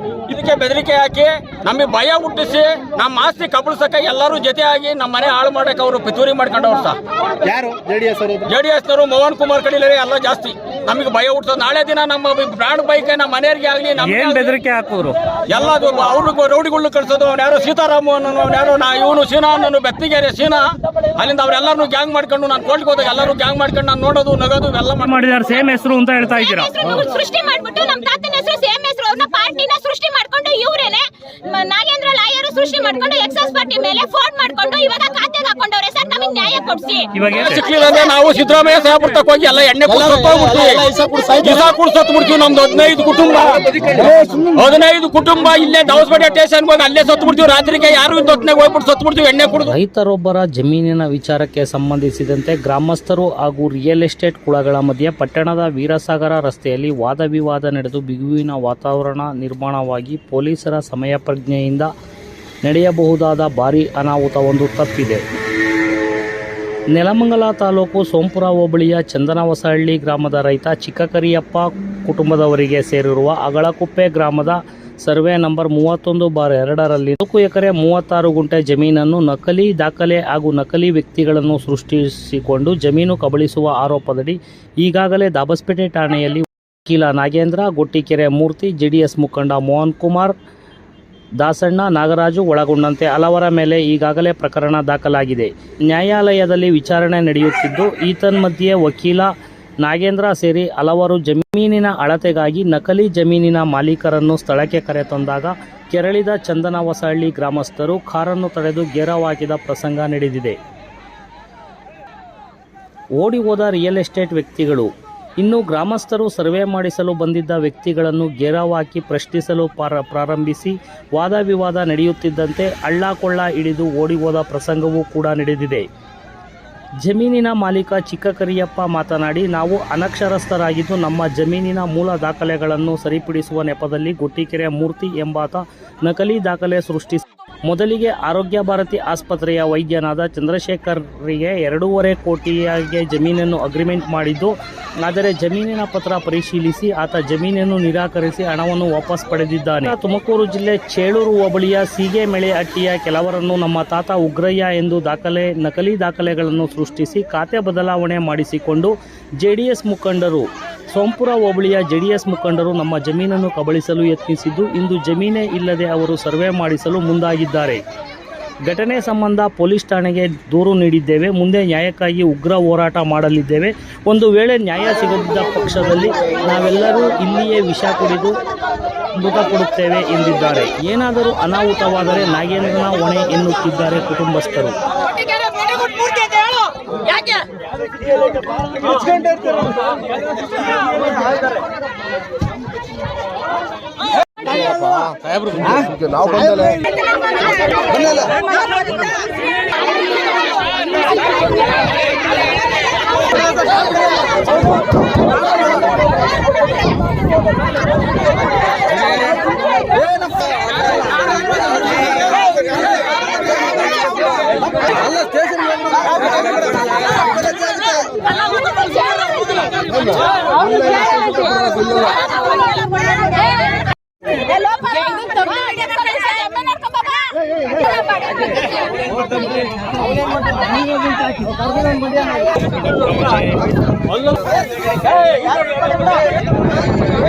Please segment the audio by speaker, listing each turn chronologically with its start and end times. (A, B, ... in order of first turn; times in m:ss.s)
0:00.3-0:07.0 A
0:07.4-0:08.5 B
0:08.5-0:14.5 A
0:14.0-0:15.2 C
0:15.5-0:20.6 A
0:21.2-0:25.6 A
0:25.0-0:26.7 C
0:26.3-0:38.1 D
0:37.1-0:37.6 C
0:37.4-0:49.7 A
0:49.6-1:01.9 E
1:02.6-1:05.2 E
1:06.9-1:30.4 E
1:31.4-1:39.3 E
1:39.8-1:50.6 E
1:53.2-2:05.9 E
2:07.0-2:47.8 E
2:48.6-2:58.4 E
2:59.2-3:04.8 E
3:05.1-3:07.4 D
3:14.8-3:15.1 B
3:15.7-3:16.8 B
3:37.4-3:39.6 D
3:40.6-3:43.8 D
3:44.4-3:49.0 D